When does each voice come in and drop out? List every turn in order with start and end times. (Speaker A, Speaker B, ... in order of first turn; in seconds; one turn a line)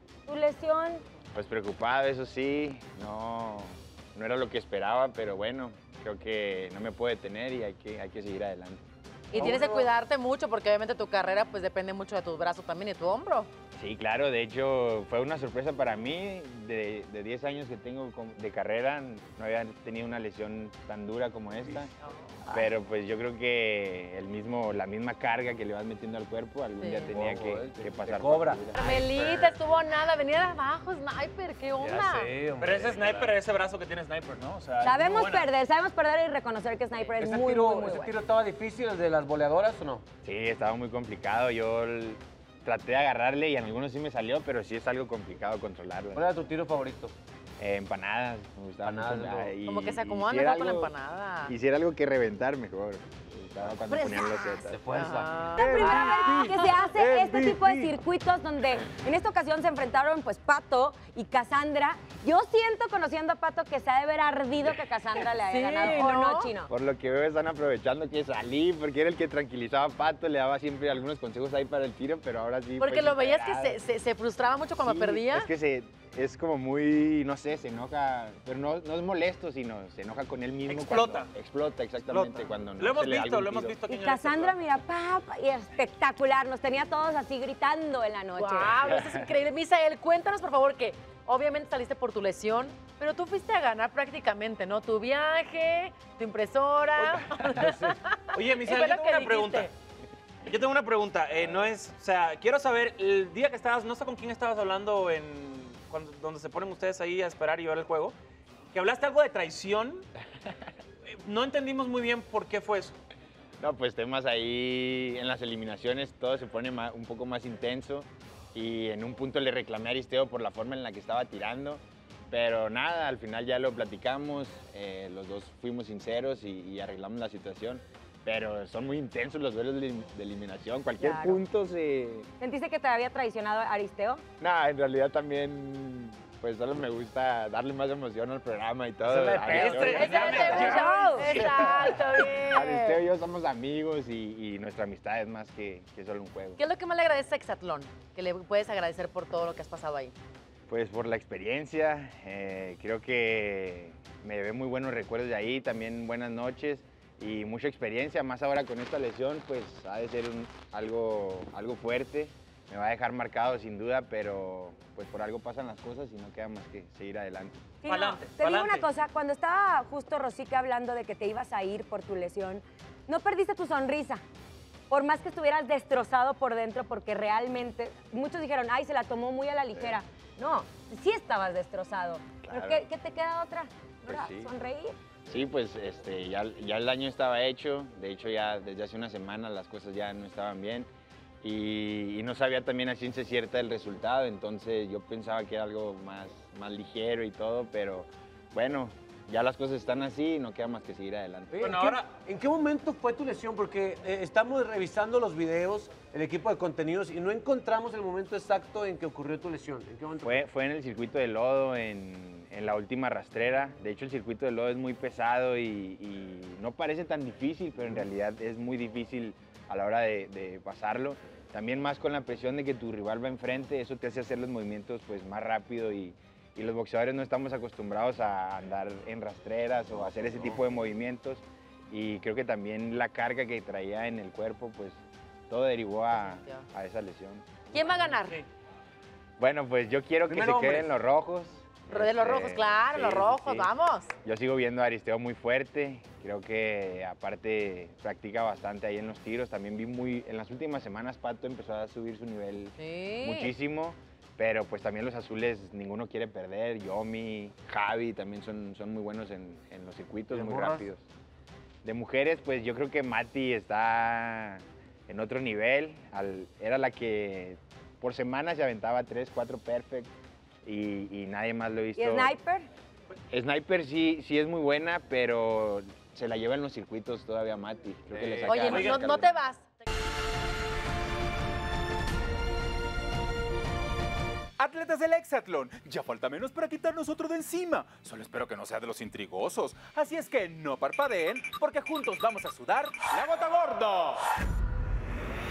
Speaker A: 0.2-1.0
Speaker B: 1.3-8.8
Speaker C: 9.3-13.5
Speaker D: 9.3-9.9
Speaker B: 13.8-21.9
Speaker B: 22.5-28.8
Speaker C: 26.8-27.1
Speaker D: 27.1-28.6
Speaker C: 28.8-32.3
Speaker E: 28.8-29.6
Speaker D: 31.8-33.4
Speaker E: 32.6-35.5
Speaker A: 34.8-38.1
Speaker D: 37.1-40.0
Speaker B: 40.2-46.2
Speaker D: 46.1-47.1
Speaker B: 47.6-50.9
Speaker D: 48.8-49.5
Speaker C: 49.6-51.5
Speaker B: 51.5-54.8
Speaker D: 53.9-57.9
Speaker C: 54.9-56.7
Speaker A: 55.5-66.7
Speaker C: 65.3-66.5
Speaker B: 66.7-73.8
Speaker C: 72.8-75.5
Speaker B: 74.8-83.8
Speaker E: 80.7-81.3
Speaker E: 82.0-84.5
Speaker A: 83.8-88.8
Speaker C: 88.3-99.7
Speaker B: 88.8-89.3
Speaker E: 97.0-97.7
Speaker E: 98.3-99.7
Speaker E: 100.5-108.2
Speaker E: 108.7-110.0
Speaker E: 111.1-113.0
Speaker B: 113.6-132.3
Speaker A: 131.0-131.4
Speaker A: 132.4-134.2
Speaker B: 134.4-140.7
Speaker E: 139.0-141.6
Speaker C: 139.6-143.0
Speaker A: 140.2-141.4
Speaker B: 141.4-146.6
Speaker C: 146.6-150.2
Speaker B: 150.7-167.6
Speaker A: 167.8-174.2
Speaker E: 167.8-168.9
Speaker A: 174.9-185.0
Speaker B: 179.7-180.0
Speaker B: 182.4-182.8
Speaker B: 184.1-184.5
Speaker B: 185.2-190.9
Speaker B: 191.4-201.6
Speaker D: 201.5-210.4
Speaker E: 201.6-202.0
Speaker B: 210.2-237.7
Speaker C: 236.1-236.7
Speaker C: 237.7-238.4
Speaker B: 239.4-243.7
Speaker D: 240.3-240.9
Speaker C: 241.9-244.1
Speaker B: 244.2-261.0
Speaker C: 252.8-253.5
Speaker D: 260.3-260.8
Speaker B: 261.8-270.1
Speaker B: 270.6-272.3
Speaker A: 271.9-272.7
Speaker B: 273.3-279.4
Speaker E: 278.1-279.0
Speaker C: 278.5-279.9
Speaker F: 284.6-294.3